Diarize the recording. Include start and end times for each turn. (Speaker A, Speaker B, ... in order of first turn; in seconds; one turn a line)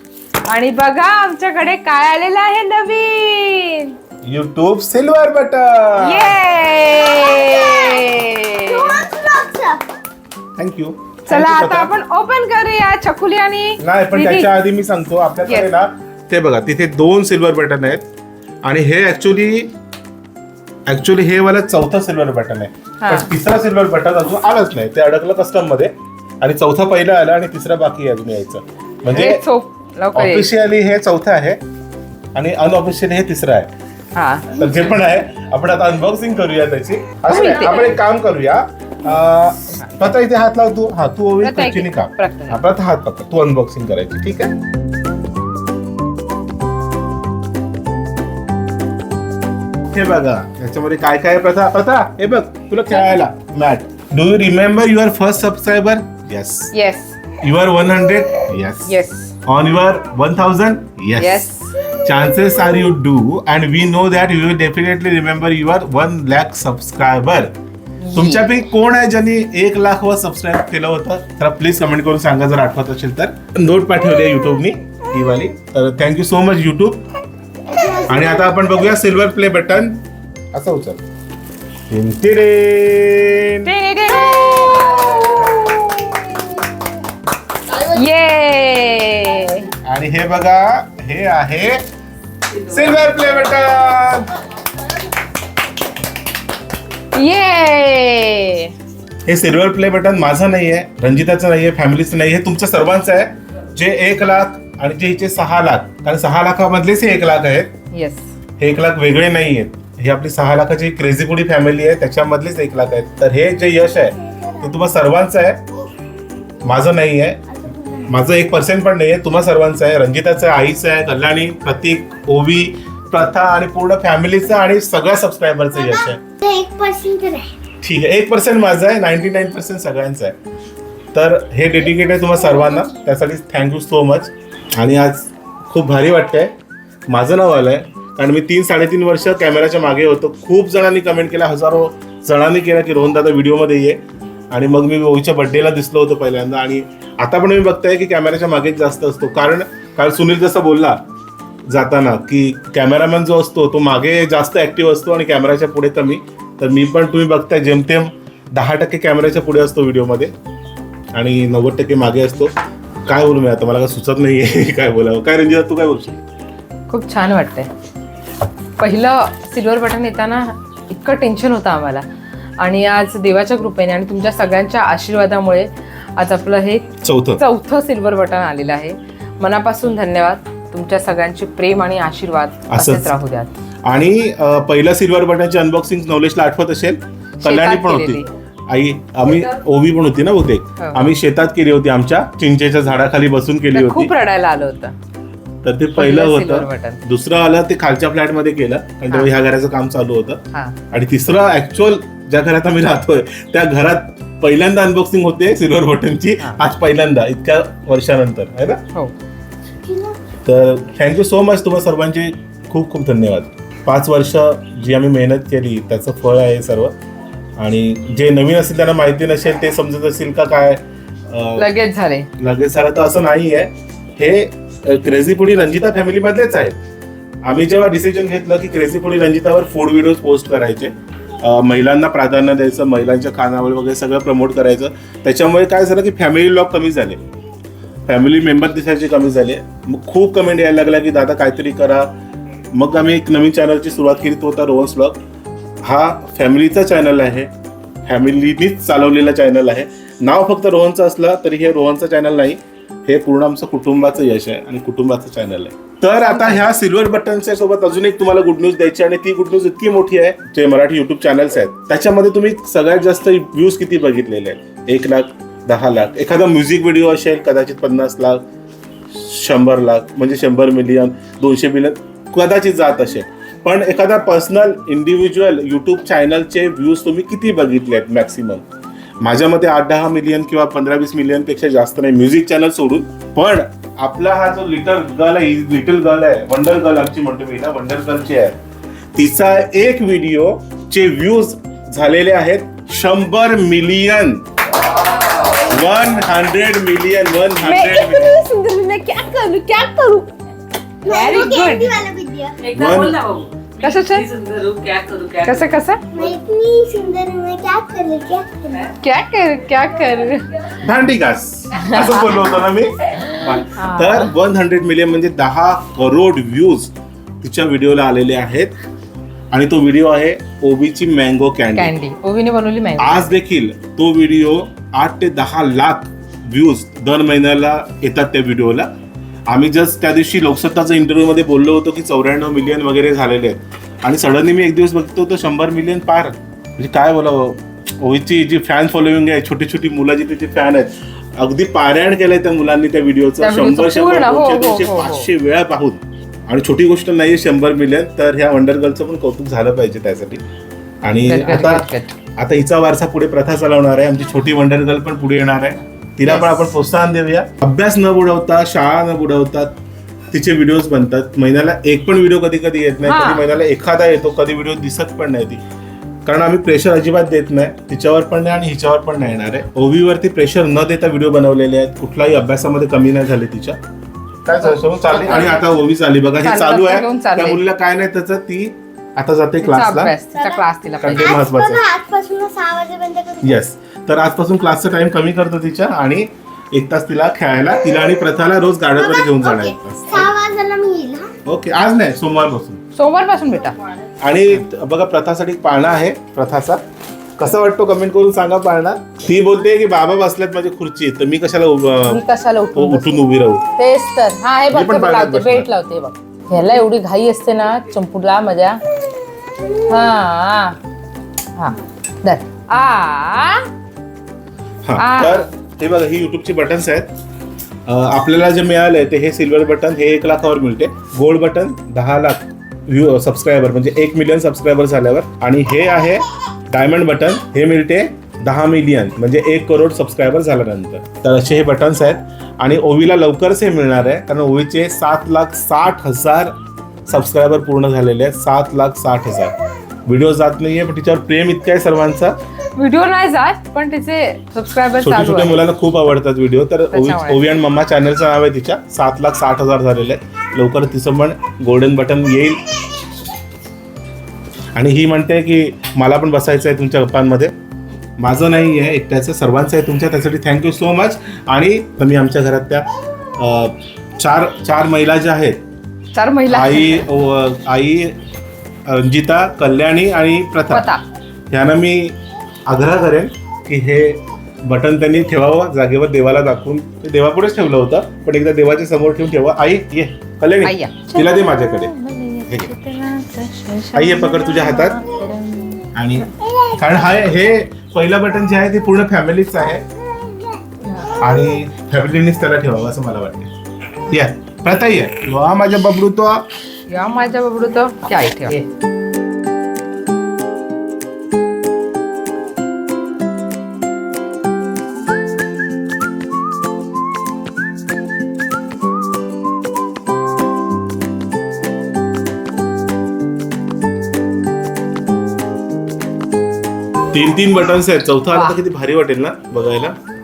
Speaker A: 0.5-4.0
Speaker B: 4.2-6.4
Speaker A: 6.0-9.1
Speaker C: 7.1-8.1
Speaker C: 8.7-9.8
Speaker B: 10.6-11.9
Speaker A: 11.3-14.5
Speaker B: 13.8-18.0
Speaker B: 18.6-19.7
Speaker B: 20.9-29.4
Speaker A: 23.0-23.3
Speaker A: 29.1-30.5
Speaker B: 30.1-31.6
Speaker B: 32.4-33.7
Speaker A: 34.1-34.6
Speaker B: 34.5-44.5
Speaker A: 37.3-38.0
Speaker A: 41.4-42.6
Speaker B: 49.9-56.7
Speaker A: 56.7-57.2
Speaker B: 57.4-58.9
Speaker A: 58.9-59.3
Speaker B: 59.5-67.5
Speaker A: 61.2-61.8
Speaker A: 68.0-68.4
Speaker B: 68.1-77.0
Speaker B: 77.9-81.0
Speaker B: 81.9-83.7
Speaker A: 83.6-86.7
Speaker A: 87.7-89.7
Speaker B: 89.8-91.8
Speaker B: 92.6-94.3
Speaker A: 97.1-98.7
Speaker B: 99.3-107.7
Speaker A: 107.9-108.3
Speaker B: 108.6-115.6
Speaker B: 116.6-126.2
Speaker C: 125.8-127.5
Speaker B: 127.8-130.4
Speaker B: 131.1-136.5
Speaker C: 132.2-132.9
Speaker B: 137.1-144.0
Speaker B: 144.5-151.0
Speaker B: 151.7-160.3
Speaker B: 161.1-162.5
Speaker B: 163.1-166.2
Speaker A: 166.9-167.7
Speaker A: 168.8-172.1
Speaker A: 172.6-176.9
Speaker B: 177.0-177.4
Speaker A: 177.4-183.5
Speaker B: 182.7-183.1
Speaker B: 183.8-194.1
Speaker A: 187.4-188.3
Speaker A: 190.8-191.1
Speaker A: 193.7-194.9
Speaker B: 195.6-208.8
Speaker A: 196.0-197.0
Speaker C: 209.9-210.2
Speaker B: 210.4-216.9
Speaker B: 217.6-221.7
Speaker A: 221.6-222.3
Speaker B: 222.4-226.8
Speaker B: 227.4-237.2
Speaker B: 238.1-242.1
Speaker B: 242.7-245.2
Speaker B: 245.8-247.5
Speaker B: 248.1-268.4
Speaker A: 256.3-256.6
Speaker B: 269.1-278.7
Speaker B: 279.2-288.6
Speaker B: 289.1-294.4
Speaker B: 295.6-298.4
Speaker A: 297.6-300.3
Speaker A: 301.1-302.0
Speaker C: 301.1-302.6
Speaker D: 302.6-305.7
Speaker B: 302.7-303.2
Speaker A: 303.8-304.2
Speaker A: 305.4-306.1
Speaker C: 306.1-308.9
Speaker A: 309.0-310.5
Speaker B: 310.7-318.7
Speaker A: 311.8-312.5
Speaker A: 313.1-314.3
Speaker B: 319.5-321.9
Speaker A: 321.8-323.3
Speaker B: 323.0-328.9
Speaker B: 329.5-350.4
Speaker A: 343.4-345.3
Speaker B: 351.0-359.8
Speaker A: 351.3-352.2
Speaker A: 356.2-356.7
Speaker B: 360.3-365.6
Speaker A: 363.0-363.4
Speaker B: 366.2-373.8
Speaker B: 374.4-380.1
Speaker A: 374.6-375.7
Speaker A: 376.4-377.6
Speaker A: 379.6-381.4
Speaker C: 380.4-383.6
Speaker B: 381.0-381.9
Speaker B: 383.4-390.3
Speaker C: 389.0-391.3
Speaker B: 391.4-392.8
Speaker A: 392.9-393.8
Speaker B: 394.2-396.8
Speaker B: 397.4-402.2
Speaker A: 402.1-403.2
Speaker B: 402.8-403.6
Speaker A: 403.8-408.8
Speaker B: 404.7-405.7
Speaker A: 409.9-410.8
Speaker A: 411.6-413.6
Speaker B: 414.8-417.1
Speaker A: 415.0-415.5
Speaker B: 417.9-436.6
Speaker B: 437.1-439.5
Speaker B: 440.1-442.4
Speaker A: 442.8-445.7
Speaker B: 445.0-452.6
Speaker A: 446.9-447.4
Speaker B: 454.7-457.5
Speaker B: 458.2-465.6
Speaker A: 466.1-467.1
Speaker B: 466.5-468.2
Speaker B: 468.9-470.9
Speaker A: 470.7-471.0
Speaker B: 471.5-481.9
Speaker A: 480.6-485.9
Speaker B: 482.5-482.7
Speaker B: 483.9-485.0
Speaker B: 485.9-489.9
Speaker B: 491.1-493.5
Speaker B: 494.1-496.5
Speaker A: 496.9-498.6
Speaker B: 517.1-520.0
Speaker A: 518.3-518.6